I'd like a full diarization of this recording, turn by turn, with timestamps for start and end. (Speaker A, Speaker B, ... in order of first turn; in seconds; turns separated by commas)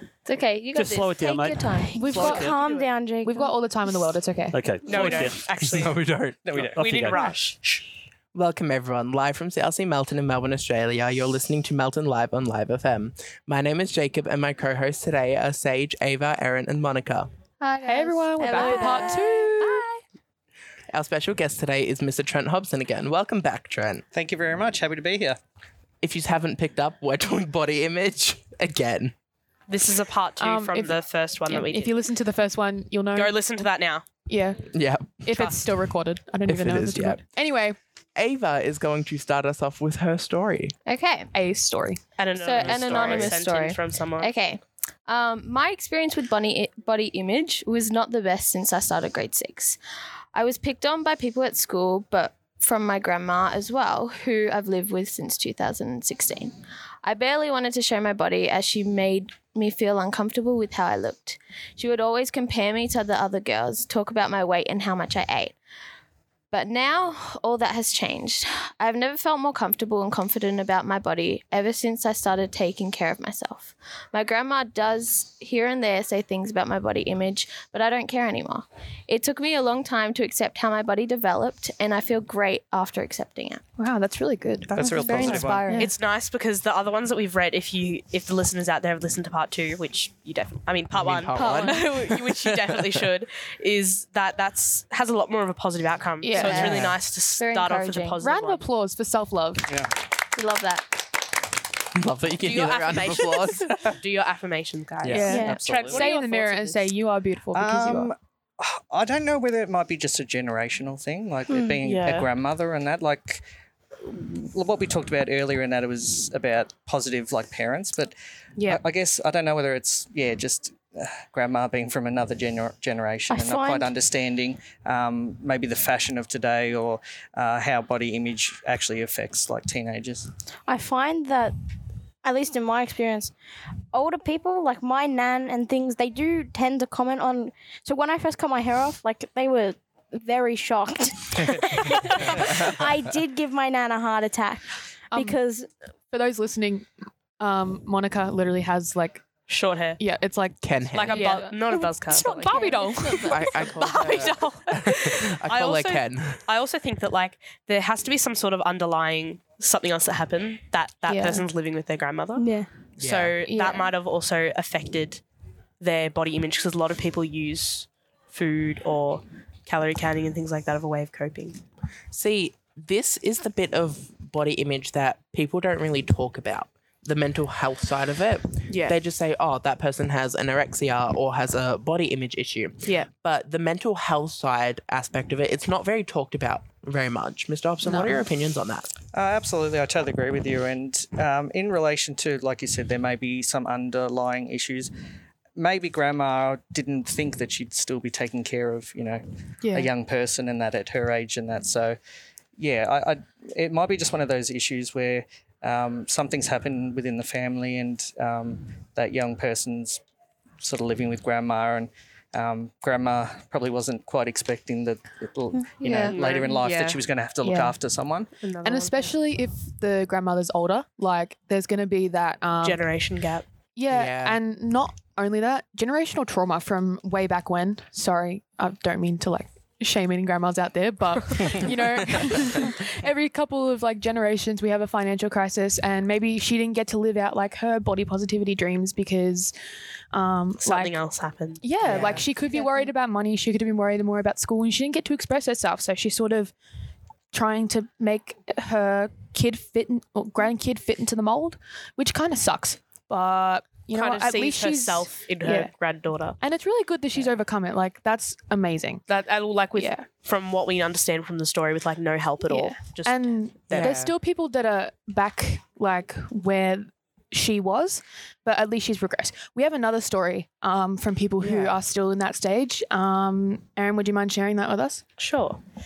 Speaker A: 0.3-2.1, Speaker B: 0.7-2.6, Speaker C: 1.8-3.6, Speaker D: 1.9-2.5, Speaker D: 3.2-4.6, Speaker B: 4.5-7.5, Speaker E: 4.8-6.0, Speaker F: 5.7-7.2, Speaker E: 6.7-7.6, Speaker G: 8.3-17.3, Speaker A: 17.6-19.9, Speaker D: 17.8-19.9, Speaker C: 18.4-19.2, Speaker G: 20.9-24.0, Speaker F: 24.1-25.4, Speaker G: 26.0-29.1, Speaker E: 29.7-32.0, Speaker D: 30.4-33.3, Speaker E: 33.1-34.1, Speaker D: 34.3-34.7, Speaker G: 34.7-35.3, Speaker D: 35.2-37.8, Speaker E: 35.3-35.7, Speaker G: 36.5-37.2, Speaker G: 38.1-40.8, Speaker A: 40.9-41.3, Speaker D: 41.3-42.0, Speaker E: 42.2-44.3, Speaker A: 42.4-49.8, Speaker F: 42.6-43.4, Speaker A: 50.3-65.6, Speaker A: 66.5-83.6, Speaker D: 83.8-85.9, Speaker G: 84.7-85.3, Speaker F: 84.8-85.7, Speaker A: 85.0-85.9, Speaker E: 85.8-98.7, Speaker G: 90.9-93.1, Speaker A: 91.3-91.8, Speaker D: 96.2-96.8, Speaker A: 96.4-98.2, Speaker G: 96.5-97.0, Speaker D: 98.2-99.7, Speaker F: 99.7-99.9, Speaker A: 100.3-100.9, Speaker G: 101.9-104.0, Speaker E: 102.4-106.9, Speaker F: 105.0-106.1, Speaker D: 105.1-108.1, Speaker C: 105.2-105.7, Speaker F: 107.5-113.4, Speaker C: 111.5-111.8, Speaker E: 111.8-112.3, Speaker F: 114.0-130.3, Speaker C: 123.3-123.9, Speaker C: 130.7-131.6, Speaker C: 132.2-133.3, Speaker C: 133.9-145.7, Speaker D: 145.1-145.4, Speaker D: 146.1-146.9, Speaker D: 147.4-149.2, Speaker E: 149.5-150.0, Speaker D: 150.0-153.7, Speaker G: 150.6-151.2, Speaker E: 150.9-165.2, Speaker C: 152.5-152.8, Speaker G: 153.3-156.4, Speaker D: 161.1-161.5, Speaker C: 162.4-162.7, Speaker G: 163.0-163.3, Speaker D: 163.4-163.9, Speaker E: 165.8-171.6, Speaker G: 172.1-188.9, Speaker E: 178.7-179.0, Speaker E: 182.8-183.1, Speaker D: 187.9-188.2, Speaker F: 189.1-194.9, Speaker F: 195.6-202.0, Speaker D: 199.6-199.9, Speaker F: 202.6-210.0, Speaker F: 210.6-218.3, Speaker A: 215.8-216.2, Speaker E: 216.1-217.0, Speaker D: 217.4-217.8, Speaker E: 218.4-219.1, Speaker D: 218.6-222.8, Speaker E: 222.6-223.4, Speaker D: 223.8-239.5, Speaker G: 223.9-224.4, Speaker G: 232.2-232.6, Speaker D: 240.1-240.9, Speaker E: 240.6-241.6, Speaker D: 241.6-246.6, Speaker G: 241.8-242.3, Speaker D: 247.3-255.7, Speaker E: 253.9-256.4, Speaker D: 256.4-259.0, Speaker E: 259.1-263.9, Speaker D: 259.8-260.1, Speaker D: 262.4-275.0, Speaker G: 263.7-264.1, Speaker G: 271.4-271.8, Speaker E: 275.2-275.6